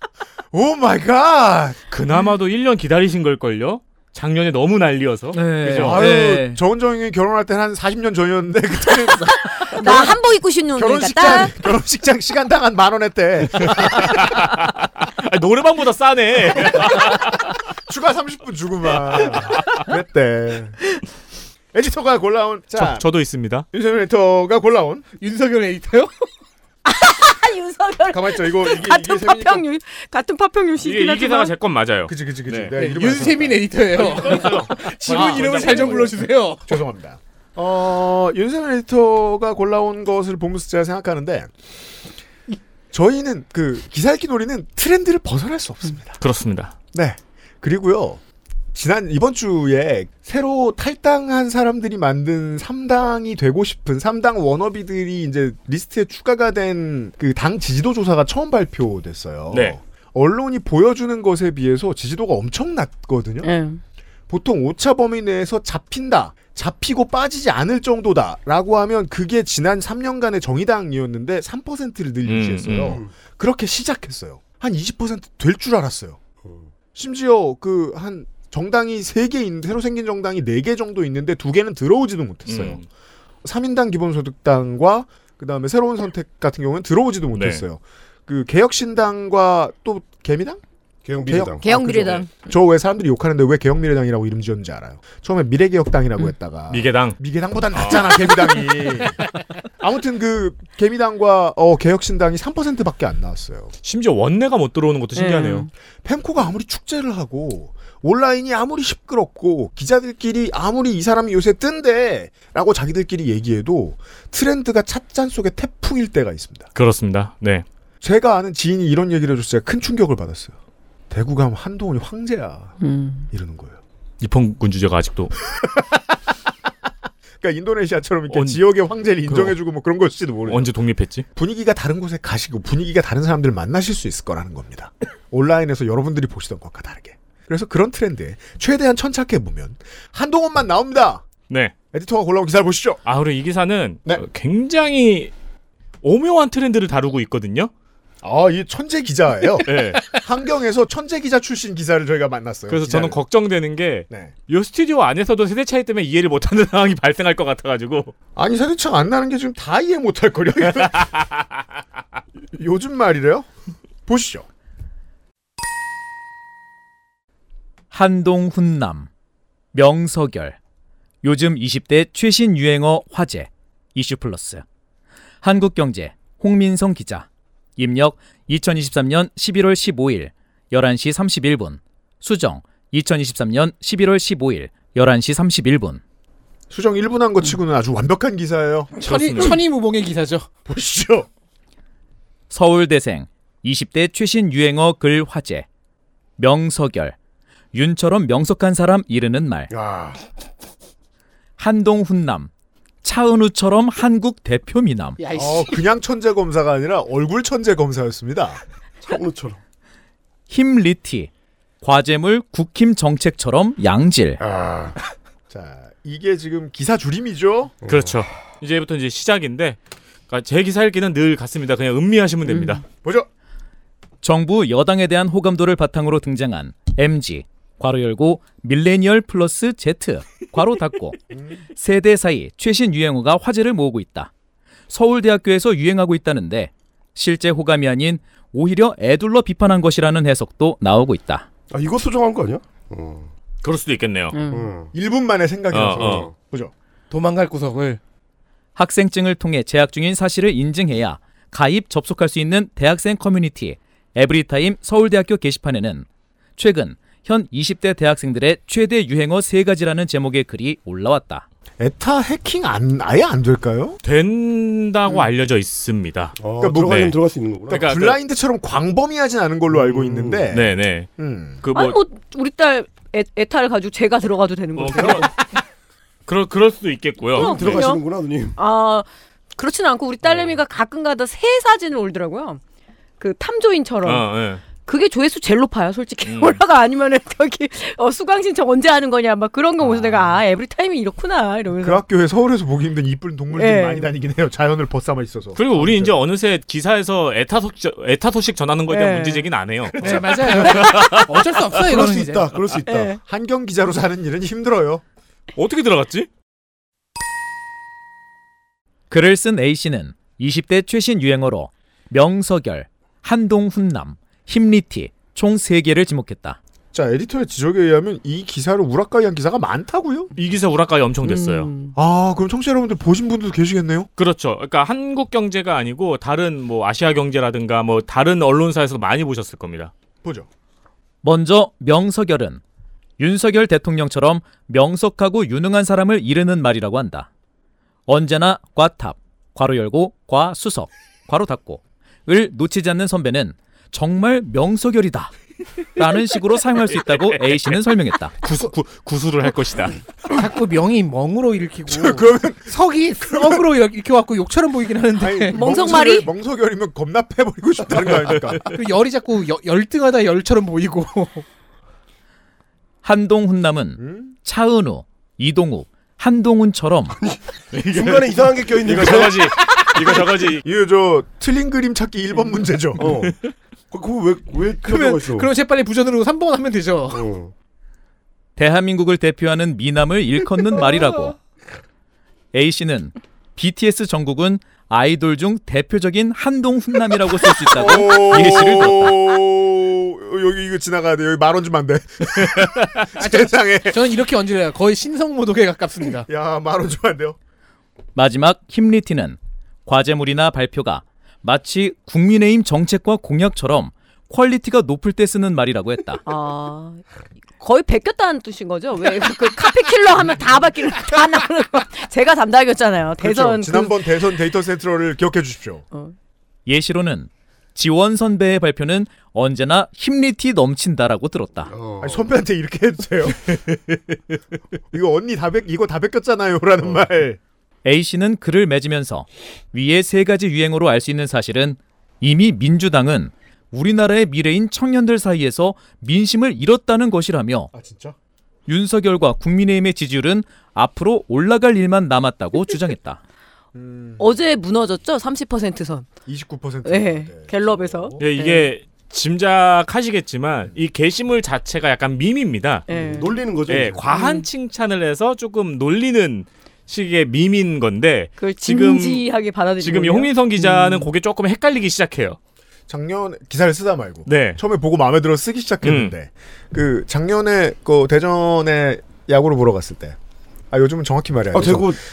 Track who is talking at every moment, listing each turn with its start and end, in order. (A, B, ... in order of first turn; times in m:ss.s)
0:00.5-0:01.8 A
0:01.9-0:06.0 B
0:05.3-0:06.6 C
0:05.8-0:10.2 A
0:09.6-0:11.5 D
0:10.7-0:14.4 A
0:13.6-0:17.4 B
0:16.7-0:17.1 A
0:17.9-0:20.8 A
0:19.1-0:19.7 B
0:21.7-0:23.1 A
0:22.8-0:23.7 B
0:23.7-0:25.1 A
0:25.2-0:26.3 E
0:26.8-0:31.5 D
0:28.1-0:29.6 A
0:30.8-0:32.7 B
0:32.1-0:36.1 A
0:32.8-0:36.6 E
0:33.9-0:36.2 B
0:36.7-0:41.5 A
0:42.9-0:46.2 A
0:46.2-0:46.7 B
0:46.9-0:48.2 A
0:48.7-1:03.5 A
0:59.5-0:59.8 B
1:03.4-1:03.8 D
1:04.3-1:16.2 A
1:12.2-1:13.0 B
1:12.8-1:13.1 F
1:16.4-1:16.7 F
1:17.0-1:22.8 A
1:22.5-1:22.8 B
1:23.4-1:30.6 A
1:27.3-1:27.6 B
1:31.0-1:31.7 F
1:31.3-1:39.2 A
1:31.6-1:32.4 D
1:36.7-1:37.2 B
1:37.7-1:38.5 B
1:39.8-1:43.7 A
1:43.8-1:45.7 B
1:45.2-1:45.7 D
1:46.0-1:56.7 A
1:56.8-1:57.6 B
1:58.0-2:00.6 A
2:01.1-2:02.8 A
2:02.8-2:03.3 D
2:03.3-2:03.8 A
2:04.2-2:05.3 B
2:05.5-2:06.0 A
2:07.4-2:10.7 A
2:08.3-2:08.6 B
2:09.3-2:09.6 B
2:10.5-2:11.2 B
2:11.4-2:21.2 A
2:21.5-2:21.7 B
2:21.9-2:23.0 A
2:23.0-2:25.3 B
2:26.0-2:27.7 B
2:28.2-2:33.2 A
2:29.6-2:30.2 B
2:32.7-2:38.1 B
2:38.4-2:41.2 A
2:42.5-2:43.5 A
2:44.1-2:44.5 A
2:47.9-2:49.1 C
2:49.7-2:50.6 C
2:51.2-2:54.6 C
2:55.4-3:06.0 C
3:06.7-3:09.6 A
3:09.0-3:10.5 E
3:09.0-3:09.6 B
3:10.7-3:11.3 A
3:12.5-3:15.7 C
3:16.4-3:17.2 C
3:17.7-3:19.7 C
3:19.7-3:20.2 F
3:21.6-3:22.5 C
3:23.0-3:25.2 C
3:25.2-3:25.8 E
3:25.3-3:28.6 A
3:29.0-3:29.6 F
3:30.5-3:31.3 C
3:31.8-3:34.4 C
3:34.4-3:35.0 F
3:35.5-3:37.8 A
3:37.8-3:38.3 F
3:37.9-3:39.8 B
3:40.3-3:42.8 B
3:43.0-3:43.3 A
3:44.2-3:51.2 C
3:51.8-3:54.3 C
3:54.9-4:01.5 C
4:01.7-4:03.3 F
4:03.6-4:04.4 B
4:04.3-4:04.7 D
4:04.5-4:04.9 F
4:04.9-4:06.7 A
4:05.7-4:06.3 B
4:05.9-4:06.3 F
4:07.1-4:08.0 E
4:08.8-4:16.1 C
4:16.6-4:21.4 C
4:21.8-4:24.0 A
4:24.0-4:27.2 B
4:26.4-4:27.9 F
4:26.6-4:27.1 A
4:27.7-4:28.2 B
4:27.7-4:31.6 A
4:29.7-4:30.5 F
4:30.5-4:31.1 B
4:31.6-4:32.0 B
4:31.7-4:35.3 D
4:34.8-4:35.4 B
4:36.3-4:37.9 B
4:37.4-4:38.6 F
4:37.4-4:38.0 D
4:38.6-4:42.6 D
4:40.3-4:40.6 F
4:43.2-4:52.0 D
4:44.0-4:44.6 B
4:46.2-4:46.6 B
4:51.8-4:56.1 A
4:53.5-4:54.1 D
4:55.6-5:01.4 B
4:58.9-4:59.5 D
4:59.9-5:00.9 A
5:00.0-5:02.5 E
5:01.8-5:03.2 F
5:02.9-5:03.2 D
5:03.2-5:05.0 A
5:05.6-5:06.3 B
5:09.1-5:16.6 C
5:16.9-5:20.3 A
5:20.4-5:21.7 B
5:21.2-5:21.9 D
5:22.0-5:24.1 A
5:24.2-5:29.9 B
5:31.2-5:32.6 C
5:33.2-5:37.3 C
5:38.1-5:45.3 C
5:46.0-5:48.3 C
5:48.4-5:50.0 B
5:50.3-5:55.6 E
5:51.9-5:53.6 A
5:55.2-5:58.7 A
5:55.5-5:56.3 D
5:58.7-6:01.4 E
6:03.0-6:07.2 C
6:04.0-6:04.3 A
6:07.2-6:09.5 F
6:07.7-6:10.6 B
6:09.7-6:13.1 A
6:13.0-6:13.4 F
6:13.9-6:15.5 F
6:14.8-6:17.2 E
6:17.1-6:17.5 F
6:18.6-6:21.4 C
6:22.5-6:29.2 C
6:27.7-6:34.1 A
6:33.2-6:36.3 E
6:36.3-6:37.4 A
6:38.2-6:46.2 C
6:46.3-6:47.0 D
6:47.6-6:54.1 D
6:53.2-6:55.8 A
6:56.7-7:01.7 C
7:01.7-7:02.3 F
7:02.0-7:03.8 A
7:04.9-7:07.4 A
7:07.8-7:17.7 C
7:17.7-7:18.2 A
7:18.7-7:23.2 C
7:23.8-7:24.3 A
7:24.2-7:26.1 D
7:26.3-7:28.2 A
7:26.8-7:28.7 D
7:28.2-7:32.9 B
7:32.9-7:33.3 D
7:32.9-7:34.0 F
7:33.7-7:39.2 B
7:34.1-7:34.5 D
7:38.4-7:41.1 D
7:39.8-7:42.4 B
7:42.9-7:50.2 A
7:44.3-7:44.6 B
7:45.8-7:46.1 B
7:50.7-7:52.0 A
7:51.5-7:52.0 F